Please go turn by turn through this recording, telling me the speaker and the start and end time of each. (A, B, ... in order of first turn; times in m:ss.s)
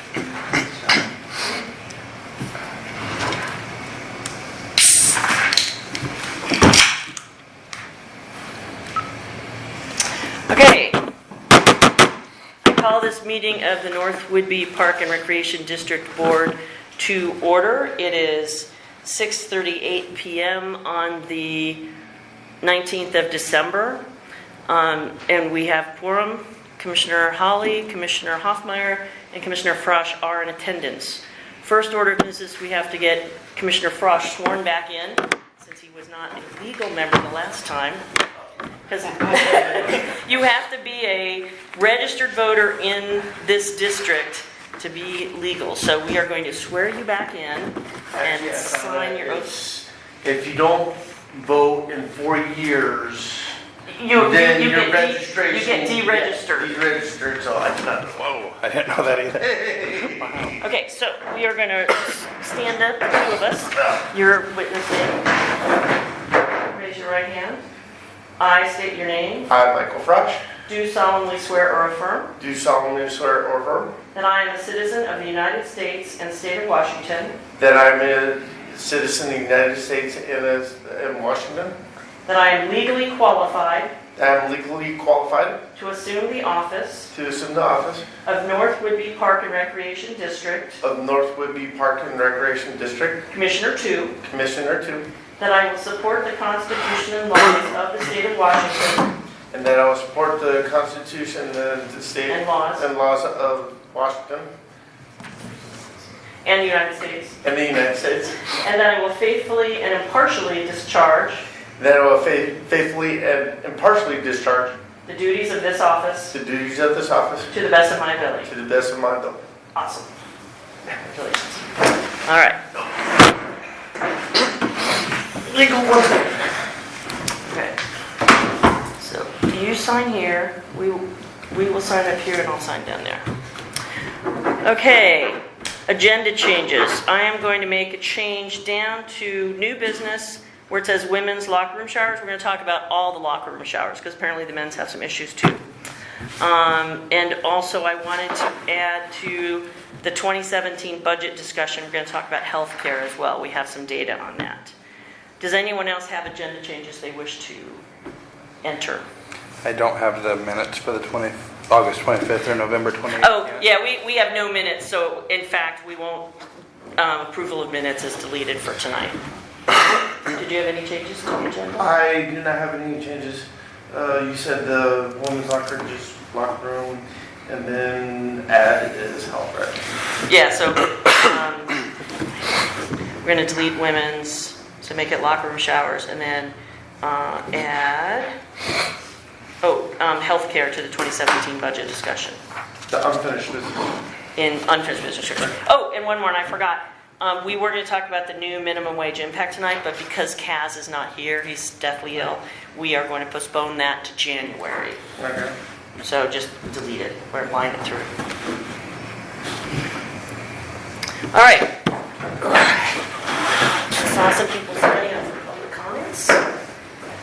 0:10.5-0:11.0 A
0:12.6-0:21.8 A
0:22.6-0:24.0 A
0:24.7-0:38.0 A
0:38.9-0:49.5 A
0:48.1-0:53.5 B
0:53.9-0:56.8 A
0:54.1-0:58.2 B
0:58.2-0:59.5 C
0:59.4-1:00.6 B
1:00.4-1:05.3 A
1:06.7-1:07.6 A
1:08.4-1:09.5 A
1:09.5-1:10.4 B
1:10.7-1:12.3 A
1:12.4-1:13.9 B
1:14.1-1:17.4 A
1:17.6-1:21.8 B
1:22.2-1:23.9 A
1:24.2-1:25.6 B
1:25.7-1:27.1 A
1:27.1-1:28.0 B
1:28.2-1:30.8 A
1:30.8-1:33.2 B
1:33.3-1:34.2 A
1:34.2-1:35.0 B
1:35.4-1:39.1 A
1:39.5-1:44.5 B
1:42.3-1:42.9 A
1:46.4-1:47.4 A
1:47.4-1:48.4 B
1:48.4-1:51.4 A
1:51.8-1:54.7 B
1:55.0-1:56.4 A
1:56.3-1:57.5 B
1:57.5-1:58.5 A
1:58.4-1:59.4 B
1:59.7-2:00.1 A
2:01.0-2:01.6 A
2:02.2-2:02.6 A
2:05.5-2:06.2 B
2:07.4-2:07.8 A
2:09.0-2:13.2 A
2:14.6-2:25.6 A
2:26.4-2:34.7 A
2:35.4-2:37.8 A
2:38.6-2:39.0 A
2:39.6-2:43.6 C
2:43.2-2:46.3 A
2:47.0-2:49.2 A
2:49.9-2:51.9 A
2:51.8-2:59.8 B
3:00.2-3:01.8 A
3:03.2-3:08.3 A
3:09.6-3:12.4 A
3:12.9-3:13.9 B
3:14.4-3:25.0 A
3:25.2-3:25.5 B
3:26.0-3:28.1 A
3:31.3-3:31.7 A
3:32.4-3:32.9 A
3:33.9-3:36.4 A